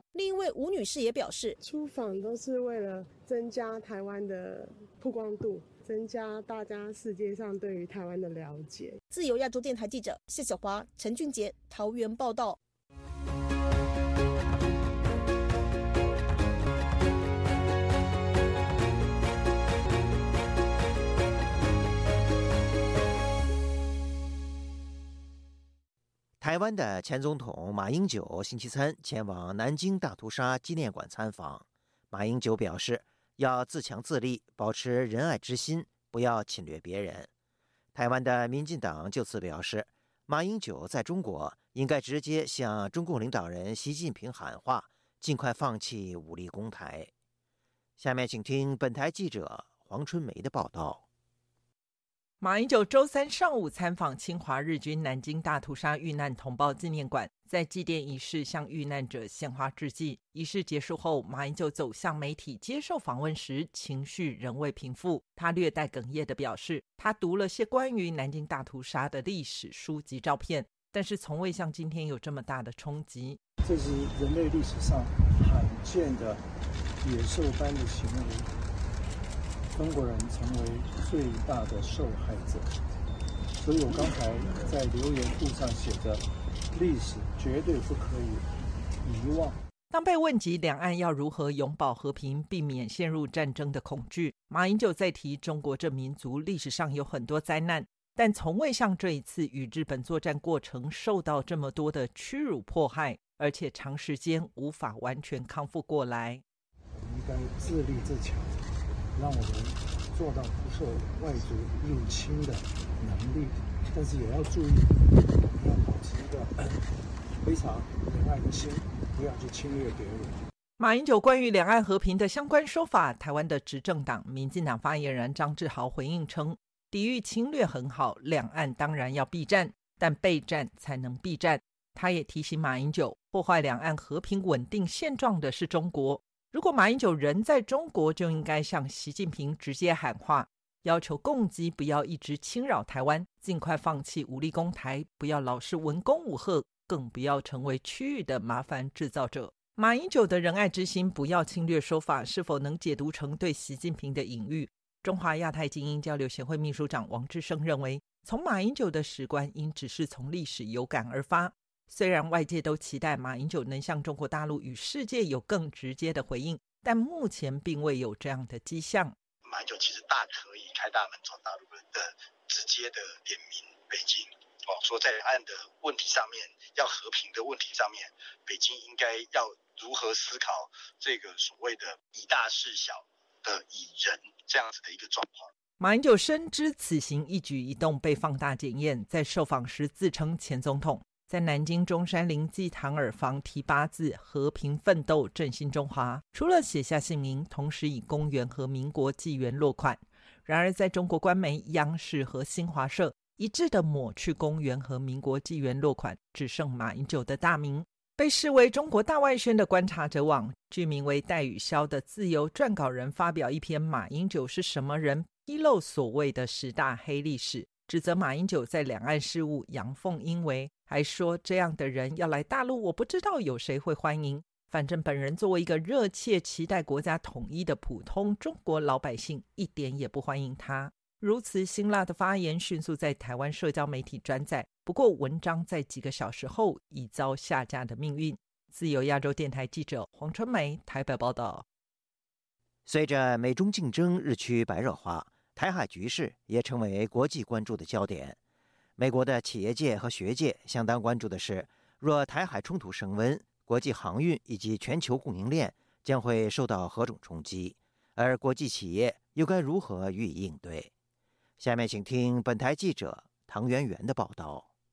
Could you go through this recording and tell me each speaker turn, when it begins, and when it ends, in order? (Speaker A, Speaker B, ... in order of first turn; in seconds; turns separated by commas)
Speaker A: 0.1-1.6, Speaker B: 1.6-9.0, Speaker A: 9.1-12.6, Speaker C: 26.4-37.3, Speaker C: 37.9-47.1, Speaker C: 48.0-51.0, Speaker D: 52.4-73.4, Speaker E: 73.6-76.5, Speaker E: 77.0-78.6, Speaker E: 79.7-82.7, Speaker E: 83.6-88.5, Speaker E: 89.0-89.6, Speaker D: 89.9-106.4, Speaker E: 106.9-120.4, Speaker D: 120.8-169.2, Speaker F: 169.4-185.5, Speaker D: 185.8-241.6, Speaker C: 242.8-248.4, Speaker C: 249.0-260.9, Speaker C: 261.6-264.7